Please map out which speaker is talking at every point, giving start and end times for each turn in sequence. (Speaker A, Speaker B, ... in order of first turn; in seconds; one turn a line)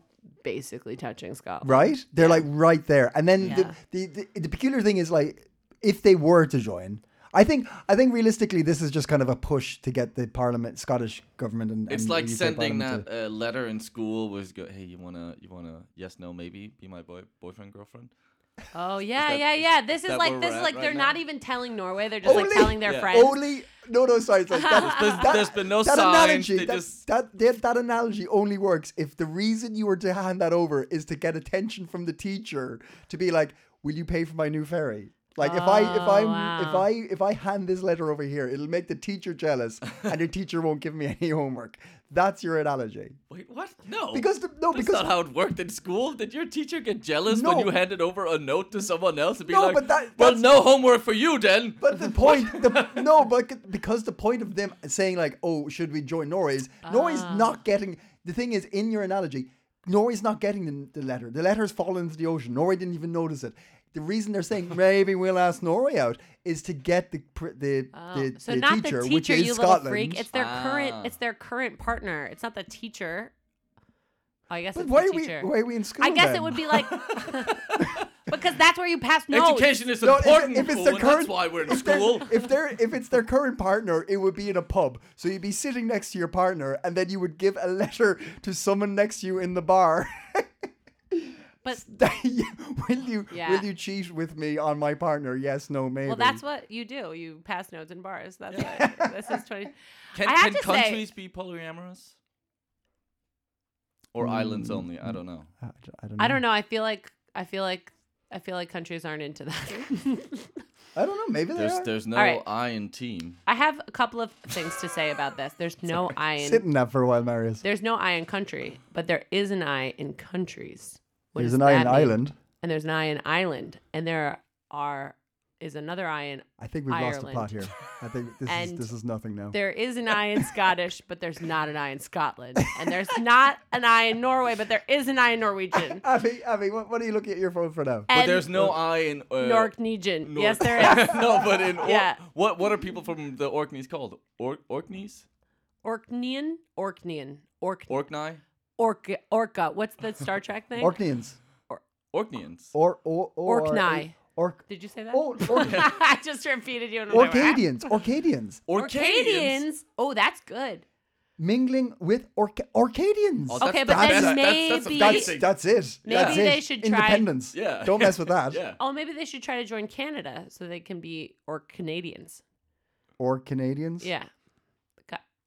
Speaker A: 0.4-2.5
Speaker B: 1.6-13.0
Speaker A: 3.4-3.8
Speaker C: 11.9-18.1
Speaker A: 18.7-23.4
Speaker C: 19.1-21.2
Speaker B: 22.2-43.2
Speaker C: 22.2-23.1
Speaker A: 24.5-25.3
Speaker C: 24.7-27.0
Speaker A: 35.4-36.9
Speaker C: 43.3-53.0
Speaker B: 44.1-45.1
Speaker B: 47.3-47.7
Speaker B: 49.5-50.5
Speaker B: 51.8-70.2
Speaker A: 56.8-57.6
Speaker A: 67.9-73.3
Speaker C: 70.3-71.1
Speaker A: 74.5-79.8
Speaker B: 74.7-76.9
Speaker C: 77.0-78.0
Speaker C: 79.3-82.5
Speaker B: 80.0-90.5
Speaker B: 91.1-96.4
Speaker A: 93.3-93.7
Speaker A: 96.0-101.0
Speaker C: 98.5-98.8
Speaker B: 98.6-99.4
Speaker C: 100.1-102.1
Speaker C: 104.1-105.5
Speaker B: 104.2-106.4
Speaker A: 106.2-110.6
Speaker B: 110.9-111.9
Speaker C: 111.5-113.4
Speaker A: 112.1-112.4
Speaker A: 113.5-116.6
Speaker B: 116.4-117.6
Speaker A: 117.6-127.7
Speaker B: 121.4-122.3
Speaker B: 126.6-129.6
Speaker A: 128.5-128.9
Speaker A: 129.5-136.0
Speaker B: 135.8-138.7
Speaker A: 138.1-138.7
Speaker C: 138.1-145.2
Speaker A: 139.3-142.2
Speaker B: 140.9-141.5
Speaker A: 145.8-147.9
Speaker C: 147.9-148.4
Speaker A: 148.8-151.0
Speaker B: 150.8-151.3
Speaker C: 152.1-152.7
Speaker B: 152.7-155.8
Speaker A: 153.5-154.2
Speaker A: 154.7-157.9
Speaker C: 155.6-155.9
Speaker B: 157.1-158.6
Speaker C: 158.7-159.6
Speaker A: 158.7-160.8
Speaker B: 161.4-168.6
Speaker C: 163.5-165.5
Speaker A: 163.6-165.4
Speaker A: 166.1-167.3
Speaker C: 166.1-166.5
Speaker C: 167.5-168.8
Speaker A: 168.8-172.4
Speaker B: 173.2-174.1
Speaker A: 174.0-174.3